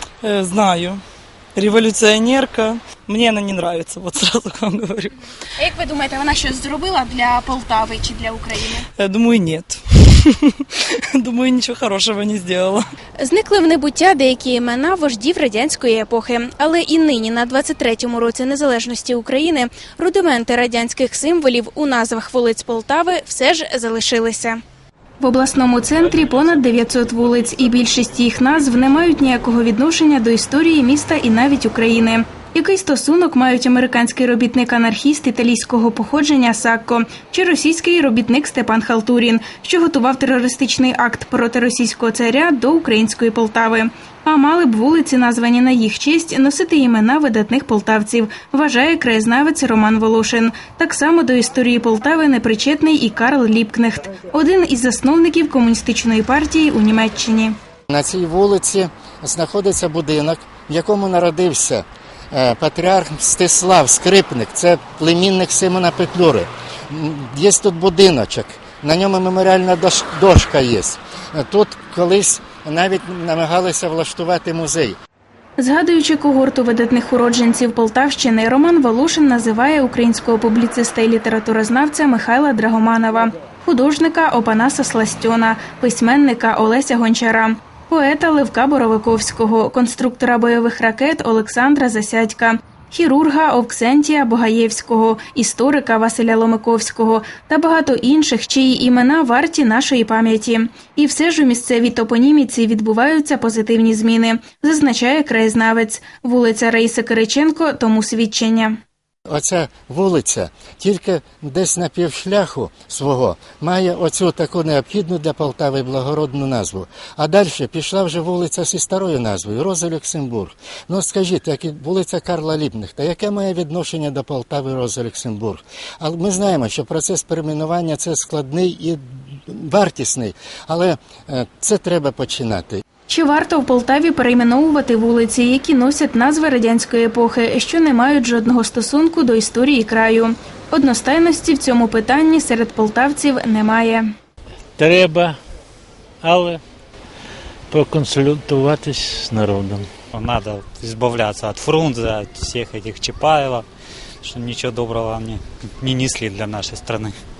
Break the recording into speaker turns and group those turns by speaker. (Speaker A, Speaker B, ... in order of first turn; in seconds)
Speaker A: 0.2-1.0, 1.6-5.1, 9.0-10.1, 11.2-12.8
Speaker B: 5.5-8.9, 13.2-24.6, 25.2-57.5, 75.6-108.8, 133.1-144.1
Speaker C: 57.9-75.0, 109.3-132.8
Speaker D: 144.8-145.4, 146.2-146.6, 147.7-149.9
Speaker E: 150.1-153.6, 154.2-157.2